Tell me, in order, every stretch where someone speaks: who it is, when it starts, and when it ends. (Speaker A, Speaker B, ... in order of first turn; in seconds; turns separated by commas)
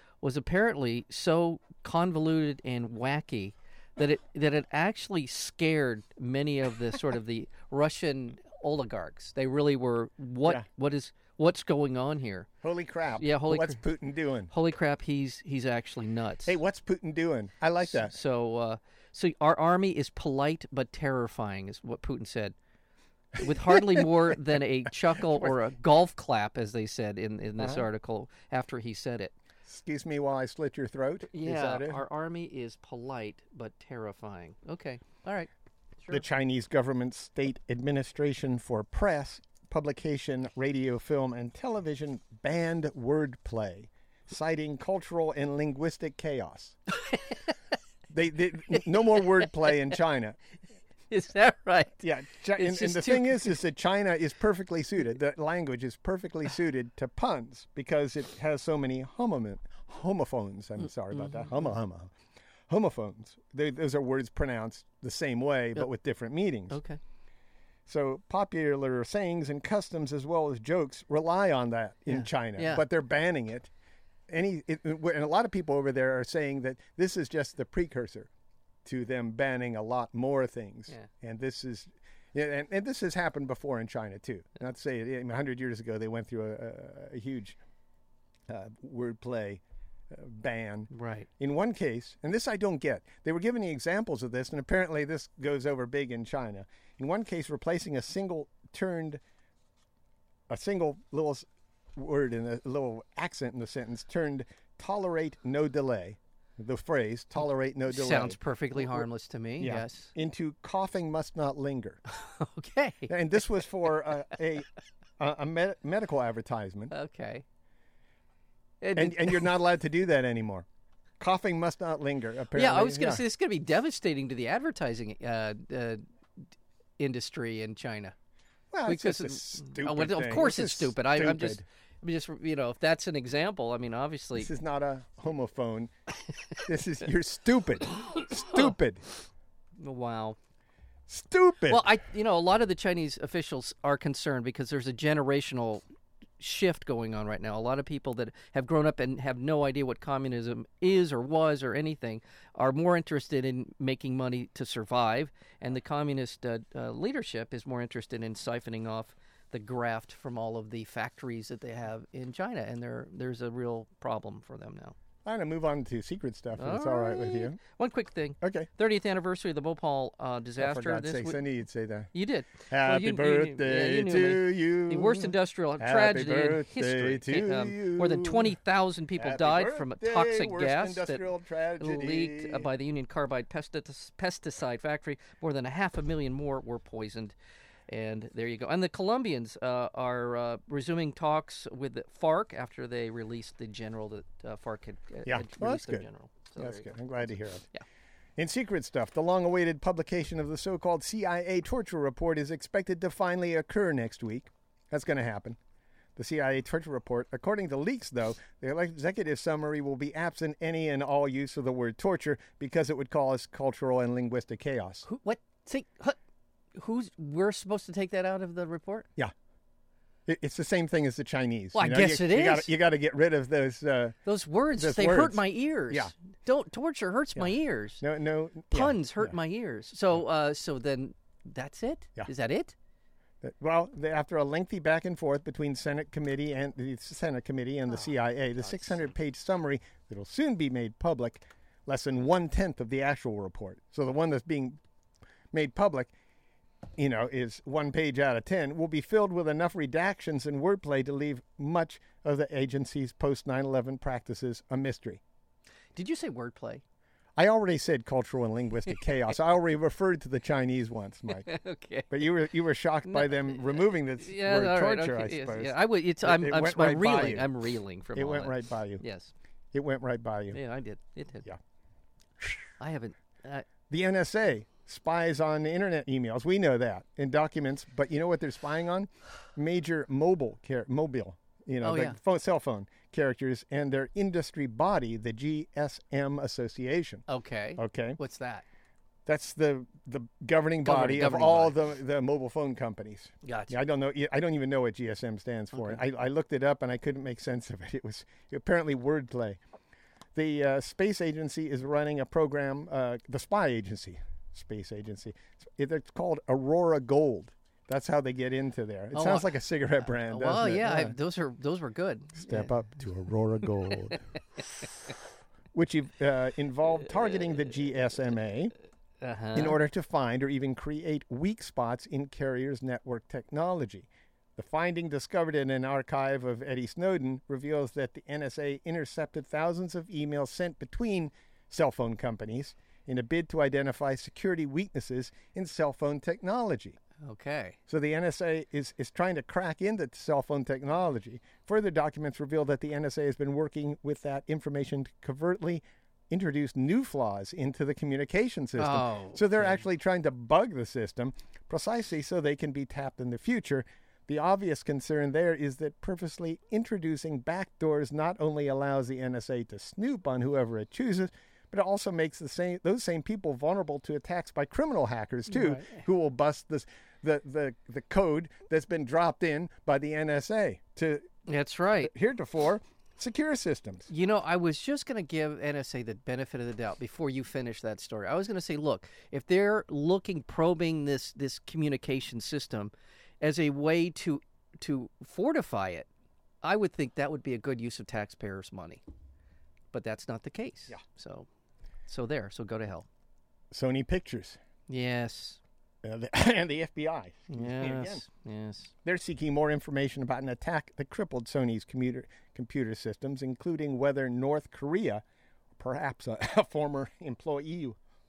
Speaker A: 0.2-12.5, Speaker B: 12.6-14.5, Speaker A: 13.2-13.8, Speaker A: 14.5-16.6, Speaker B: 16.5-18.1, Speaker A: 17.9-22.6, Speaker B: 23.4-24.1, Speaker A: 23.4-29.3, Speaker B: 25.2-25.5, Speaker B: 27.6-27.9, Speaker B: 29.6-32.0, Speaker A: 31.3-35.5, Speaker B: 36.1-46.8, Speaker A: 47.0-47.4, Speaker B: 48.1-50.4, Speaker A: 49.4-49.7, Speaker A: 51.1-52.0, Speaker B: 52.0-62.1, Speaker A: 52.5-53.6, Speaker A: 61.1-61.5, Speaker B: 62.7-66.8, Speaker A: 66.7-67.0, Speaker B: 67.9-73.7, Speaker A: 72.1-72.8, Speaker B: 74.3-78.3, Speaker B: 78.8-87.6, Speaker B: 88.5-99.2, Speaker A: 90.9-91.3, Speaker B: 100.5-109.0, Speaker A: 107.9-110.1, Speaker B: 109.6-112.0, Speaker A: 112.1-113.1, Speaker B: 113.1-114.7, Speaker B: 115.2-116.9, Speaker A: 116.9-117.4, Speaker A: 118.8-119.5, Speaker B: 119.0-120.7, Speaker B: 121.2-123.2, Speaker A: 122.5-126.0, Speaker A: 127.0-128.1, Speaker B: 128.7-131.6, Speaker A: 128.9-134.5, Speaker B: 134.4-135.9, Speaker B: 136.6-139.0, Speaker A: 139.8-140.4, Speaker B: 141.1-141.8, Speaker A: 141.7-145.8, Speaker A: 146.4-164.9, Speaker B: 165.2-167.6, Speaker A: 166.6-171.4, Speaker B: 168.4-168.7, Speaker B: 170.6-172.1, Speaker A: 172.1-181.2, Speaker B: 172.7-178.6, Speaker B: 179.2-182.7, Speaker A: 181.8-187.3, Speaker A: 187.9-196.9, Speaker B: 195.3-197.7, Speaker B: 198.4-205.6, Speaker B: 206.2-215.1, Speaker A: 215.1-216.2, Speaker A: 216.8-219.1, Speaker B: 220.3-224.2, Speaker A: 221.8-222.7, Speaker A: 224.3-228.0, Speaker B: 224.8-226.1, Speaker B: 227.4-229.3, Speaker A: 228.7-232.7, Speaker B: 233.4-244.8, Speaker B: 245.5-246.1, Speaker B: 247.0-255.2, Speaker A: 255.9-256.8, Speaker B: 257.4-261.5, Speaker A: 261.3-262.1, Speaker B: 262.1-267.5, Speaker A: 263.1-263.6, Speaker A: 264.2-269.3, Speaker B: 268.1-269.0, Speaker B: 269.7-270.6, Speaker A: 270.5-271.5, Speaker A: 272.8-273.6, Speaker B: 273.9-287.2, Speaker A: 281.8-282.2, Speaker A: 287.3-288.7, Speaker B: 287.8-288.2, Speaker B: 289.3-299.6, Speaker A: 290.8-291.8, Speaker A: 293.4-293.8, Speaker A: 295.7-296.0, Speaker B: 300.4-311.1, Speaker A: 309.1-309.5, Speaker A: 310.1-312.7, Speaker B: 312.4-314.2, Speaker B: 315.7-318.7, Speaker A: 319.2-319.8, Speaker B: 319.5-337.0, Speaker A: 337.2-337.8, Speaker B: 337.9-371.3, Speaker A: 348.8-349.8, Speaker A: 365.5-366.0, Speaker A: 371.5-372.1, Speaker B: 372.0-374.1, Speaker A: 374.1-386.1, Speaker A: 386.6-389.0, Speaker A: 389.9-391.5, Speaker A: 392.1-393.1, Speaker B: 393.7-394.6, Speaker A: 394.9-395.6, Speaker B: 396.0-398.2, Speaker A: 397.5-398.9, Speaker B: 399.1-405.2, Speaker B: 405.8-408.0